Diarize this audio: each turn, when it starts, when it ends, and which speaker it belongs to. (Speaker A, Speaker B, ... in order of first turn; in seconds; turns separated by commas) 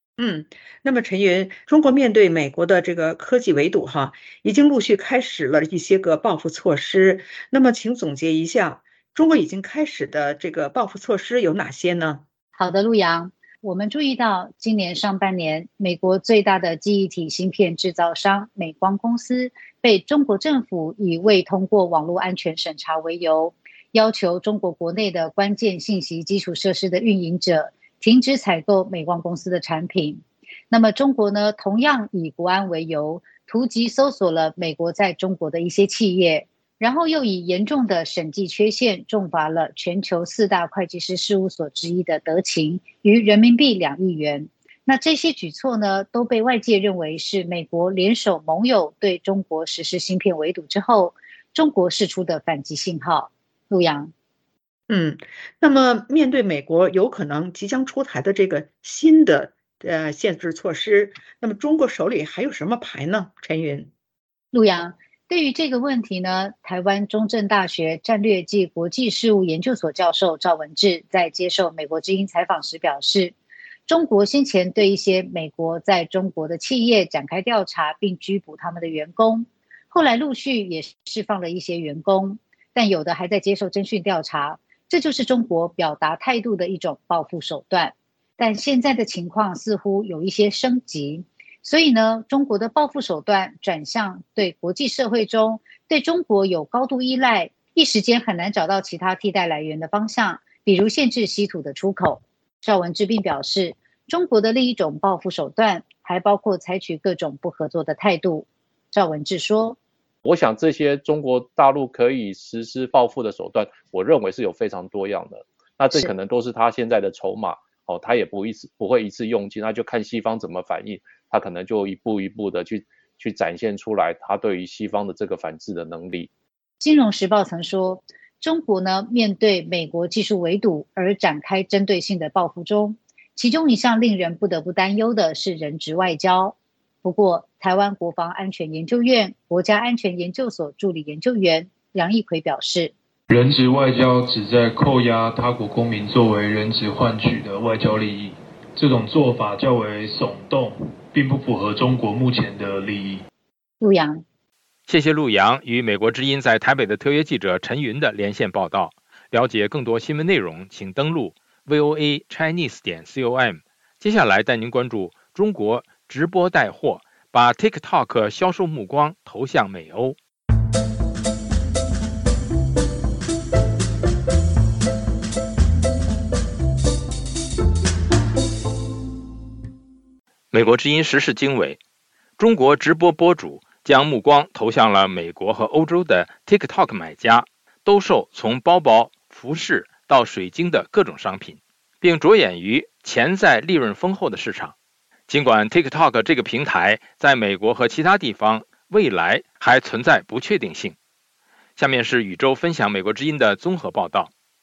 Speaker A: 0.2-12.2, Speaker B: 12.6-54.1, Speaker A: 54.9-63.9, Speaker B: 64.5-73.3, Speaker B: 73.9-109.8, Speaker C: 110.2-126.3, Speaker B: 126.8-142.9, Speaker D: 143.3-153.2, Speaker B: 153.8-154.2, Speaker E: 154.9-170.2, Speaker E: 180.5-181.8, Speaker E: 182.4-194.7, Speaker E: 195.3-200.9, Speaker E: 201.8-204.3